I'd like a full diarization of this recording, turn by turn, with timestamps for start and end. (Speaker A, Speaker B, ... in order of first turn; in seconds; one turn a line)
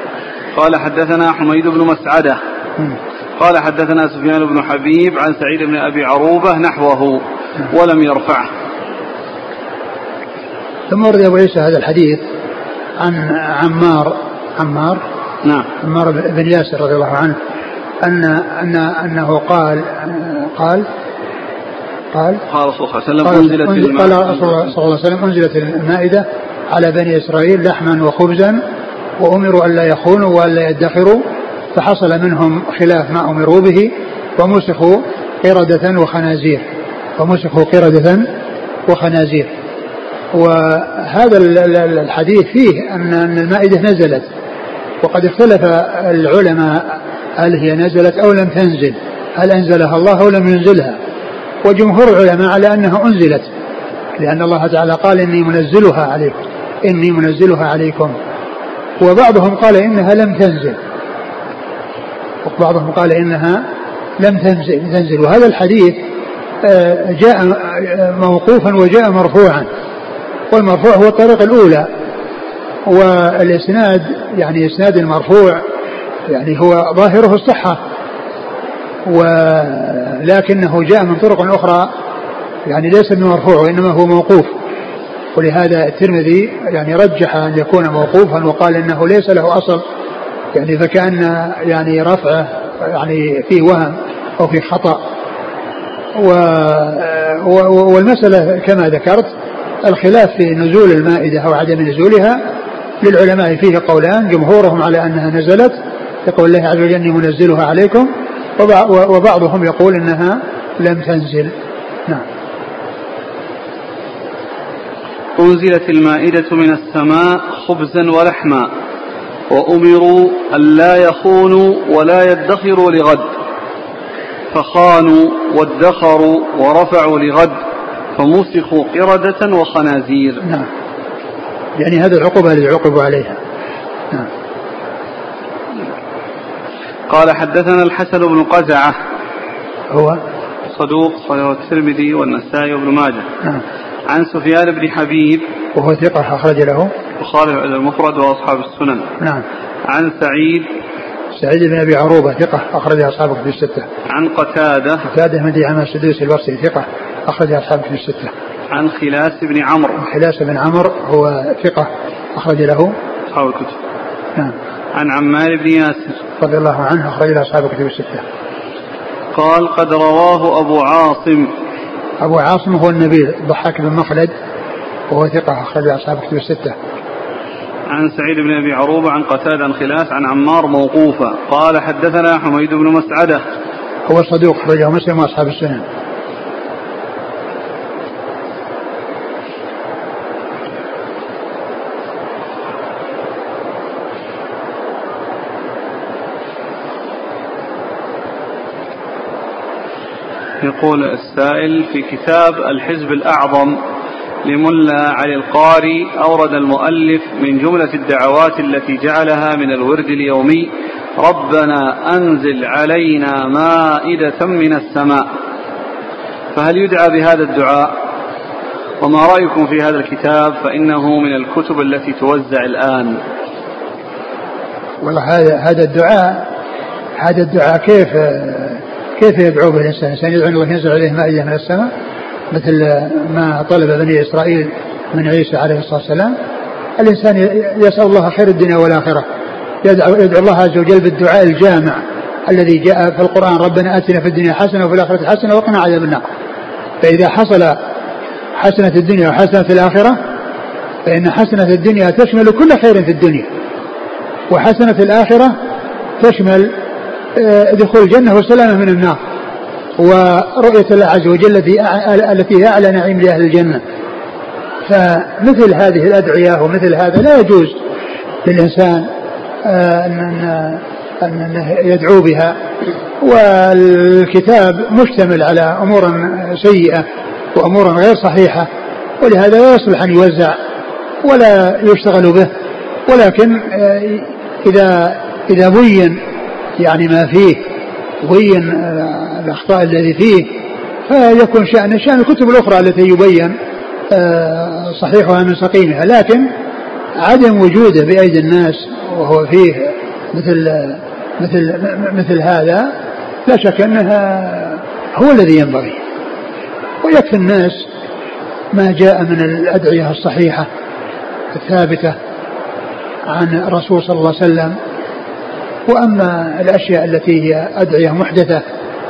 Speaker A: 0.6-2.4
Speaker A: 3.4-8.5
Speaker B: 10.9-12.2
Speaker B: 13.0-15.0
Speaker A: 15.4-15.7
Speaker B: 15.8-17.4
Speaker B: 18.0-20.9
Speaker B: 22.1-22.4
Speaker A: 22.5-24.7
Speaker B: 23.2-28.6
Speaker B: 29.2-31.2
Speaker B: 31.7-36.6
Speaker B: 37.2-38.3
Speaker B: 38.9-39.5
Speaker B: 40.3-44.3
Speaker B: 45.0-51.0
Speaker B: 51.6-53.5
Speaker B: 54.2-58.1
Speaker B: 59.0-60.8
Speaker B: 62.5-63.6
Speaker B: 64.2-66.0
Speaker B: 66.6-69.7
Speaker B: 70.5-71.9
Speaker B: 72.9-75.6
Speaker B: 76.3-77.8
Speaker B: 79.0-81.9
Speaker B: 82.7-84.5
Speaker B: 85.3-89.8
Speaker B: 90.5-95.0
Speaker B: 96.2-99.3
Speaker B: 99.8-102.4
Speaker B: 103.0-111.5
Speaker A: 115.4-118.7
Speaker A: 119.5-123.3
Speaker A: 124.5-127.6
Speaker A: 128.2-130.4
Speaker B: 131.8-133.4
Speaker A: 137.1-139.0
Speaker B: 139.9-140.2
Speaker A: 140.7-143.3
Speaker A: 144.1-145.5
Speaker B: 145.8-146.9
Speaker A: 147.2-149.1
Speaker A: 149.8-150.7
Speaker B: 151.3-153.9
Speaker A: 154.1-155.1
Speaker B: 155.1-158.3
Speaker A: 158.7-160.0
Speaker B: 160.0-162.9
Speaker A: 163.3-163.8
Speaker A: 164.9-166.2
Speaker B: 166.4-168.2
Speaker A: 169.3-171.5
Speaker B: 172.2-174.3
Speaker B: 175.1-176.8
Speaker A: 177.9-183.4
Speaker B: 184.1-185.8
Speaker A: 200.6-203.8
Speaker A: 204.4-215.3
Speaker A: 216.5-218.0
Speaker A: 219.0-223.2
Speaker B: 225.0-226.5
Speaker B: 227.2-231.9
Speaker B: 232.5-236.3
Speaker B: 237.0-239.3
Speaker B: 239.8-246.2
Speaker B: 247.0-247.8
Speaker B: 248.6-250.2
Speaker B: 251.1-253.5
Speaker B: 254.5-255.6
Speaker B: 256.2-256.7
Speaker B: 257.4-259.2
Speaker B: 260.0-263.8
Speaker B: 264.9-267.8
Speaker B: 268.4-269.1
Speaker B: 269.6-272.6
Speaker B: 273.2-278.7
Speaker B: 279.2-280.6
Speaker B: 281.2-282.5
Speaker B: 283.1-286.2
Speaker B: 286.8-287.6
Speaker B: 288.2-293.6
Speaker B: 294.1-296.5
Speaker B: 297.2-302.9
Speaker B: 303.5-306.0
Speaker B: 307.0-307.9
Speaker B: 308.7-310.7
Speaker B: 311.5-312.2
Speaker B: 313.3-314.8
Speaker B: 315.9-318.6